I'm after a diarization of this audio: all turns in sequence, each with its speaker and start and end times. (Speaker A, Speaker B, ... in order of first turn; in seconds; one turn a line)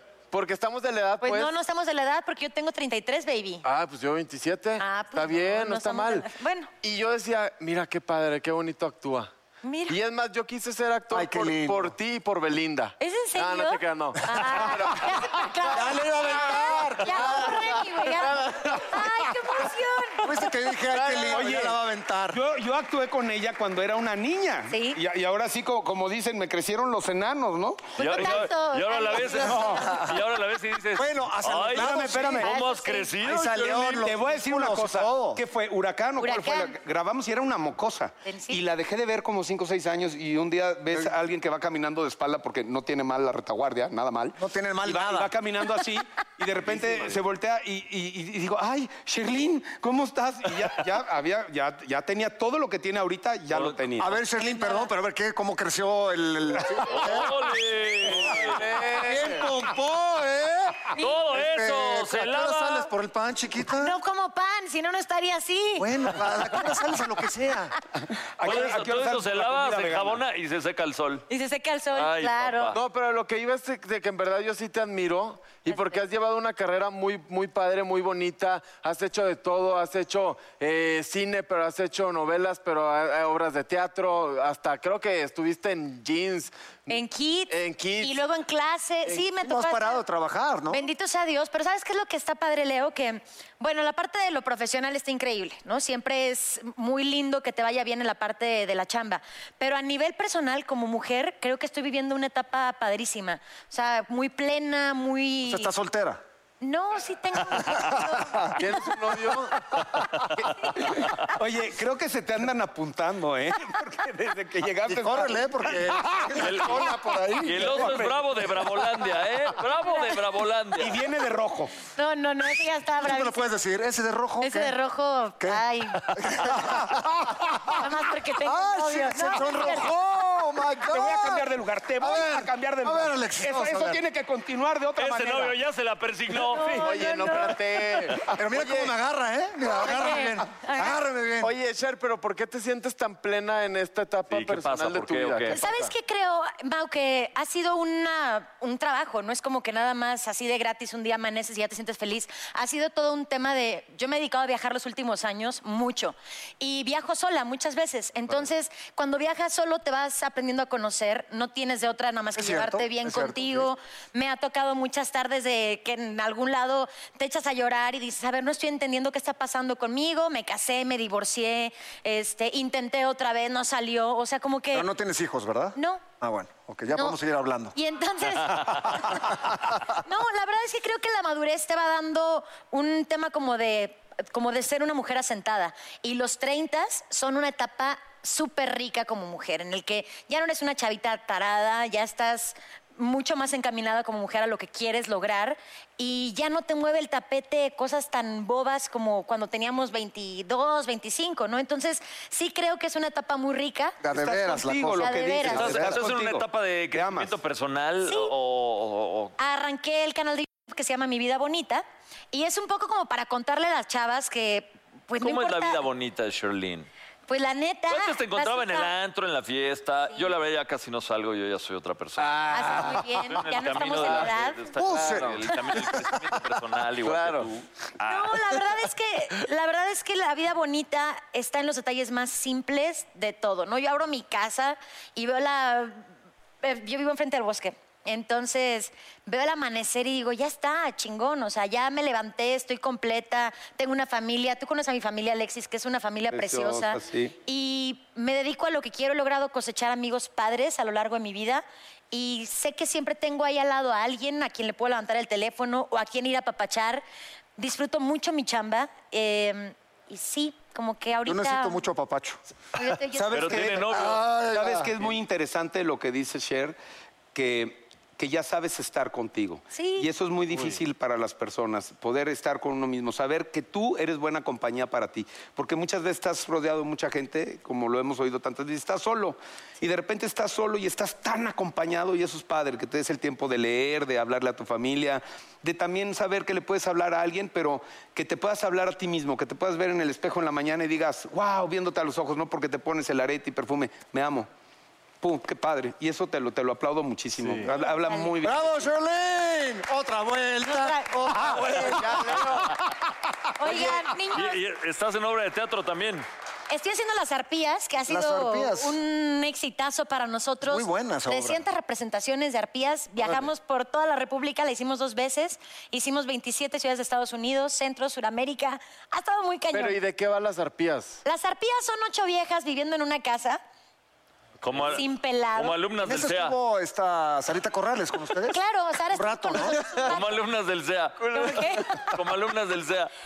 Speaker A: 0.3-1.5
Speaker B: 1.2-3.6
Speaker A: 3.6-6.3
Speaker B: 4.8-6.7
Speaker A: 6.8-9.3
Speaker B: 9.6-10.0
Speaker A: 9.9-15.9
Speaker C: 11.1-11.9
Speaker B: 13.0-20.3
Speaker C: 15.7-17.5
Speaker A: 17.0-19.0
Speaker C: 20.2-22.4
Speaker A: 20.9-21.5
Speaker D: 21.3-21.8
Speaker D: 22.3-28.4
Speaker B: 24.7-25.0
Speaker B: 28.0-30.0
Speaker E: 28.0-34.0
Speaker C: 29.6-30.1
Speaker C: 30.9-32.5
Speaker D: 31.8-32.5
Speaker B: 32.4-33.2
Speaker C: 33.2-35.4
Speaker D: 33.6-54.2
Speaker B: 36.2-36.7
Speaker B: 38.2-38.6
Speaker C: 44.4-45.3
Speaker E: 46.8-47.1
Speaker E: 53.5-53.8
Speaker C: 54.0-57.3
Speaker B: 54.6-54.9
Speaker E: 56.9-58.6
Speaker C: 58.1-64.0
Speaker A: 58.3-59.5
Speaker E: 61.0-62.9
Speaker B: 63.7-66.0
Speaker C: 65.8-67.7
Speaker D: 68.4-70.2
Speaker E: 68.4-71.2
Speaker B: 71.3-72.7
Speaker E: 71.9-72.8
Speaker A: 72.7-86.5
Speaker B: 75.7-76.0
Speaker B: 86.9-90.0
Speaker A: 87.5-88.2
Speaker C: 89.4-90.8
Speaker B: 90.7-105.7
Speaker C: 105.4-106.2
Speaker B: 106.6-108.8
Speaker C: 107.8-108.4
Speaker A: 108.5-109.6
Speaker D: 110.9-116.9
Speaker C: 114.9-118.0
Speaker E: 116.4-116.8
Speaker E: 117.4-121.0
Speaker D: 117.5-118.2
Speaker B: 119.8-120.2
Speaker D: 120.8-121.7
Speaker B: 121.9-123.4
Speaker C: 123.0-124.7
Speaker B: 124.4-126.1
Speaker C: 125.4-127.8
Speaker B: 127.6-129.9
Speaker C: 128.4-131.4
Speaker D: 130.9-135.6
Speaker C: 132.0-134.0
Speaker E: 135.0-136.9
Speaker B: 136.4-138.0
Speaker A: 136.8-138.9
Speaker C: 138.3-141.5
Speaker B: 139.7-141.0
Speaker A: 141.4-145.9
Speaker E: 144.3-145.6
Speaker B: 145.5-174.9
Speaker C: 162.3-163.7
Speaker C: 174.7-177.7
Speaker B: 175.8-176.1
Speaker B: 176.9-177.2
Speaker B: 177.7-204.0
Speaker C: 178.9-179.6
Speaker C: 204.0-206.0
Speaker D: 204.1-207.3
Speaker B: 204.9-205.7
Speaker E: 205.5-209.3
Speaker B: 208.0-208.3
Speaker B: 209.4-215.8
Speaker E: 215.2-216.9
Speaker B: 217.3-218.9
Speaker E: 217.9-228.6
Speaker A: 222.2-223.0
Speaker B: 222.5-224.7
Speaker A: 224.0-224.3
Speaker C: 224.8-225.4
Speaker A: 224.9-225.4
Speaker B: 225.5-225.9
Speaker A: 227.0-227.5
Speaker B: 228.1-236.1
Speaker B: 236.6-257.0
Speaker D: 246.3-247.3
Speaker B: 257.6-261.8
Speaker C: 261.2-262.4
Speaker B: 262.8-263.6
Speaker C: 263.1-264.9
Speaker E: 263.3-264.2
Speaker D: 263.4-266.8
Speaker D: 267.3-294.5
Speaker B: 269.7-270.1
Speaker D: 295.2-298.9
Speaker A: 297.4-297.6
Speaker B: 297.6-298.4
Speaker C: 298.4-302.5
Speaker B: 300.6-302.0
Speaker A: 301.4-302.7
Speaker B: 303.6-304.6
Speaker E: 304.3-306.2
Speaker B: 306.7-320.0
Speaker C: 308.1-308.9
Speaker C: 310.6-311.6
Speaker A: 313.2-313.4
Speaker A: 319.7-321.2
Speaker B: 321.2-323.6
Speaker E: 324.6-326.5
Speaker B: 324.8-325.8
Speaker C: 326.0-328.6
Speaker B: 328.4-330.4
Speaker C: 329.1-330.0
Speaker E: 330.1-333.1
Speaker A: 331.2-331.7
Speaker B: 331.3-332.1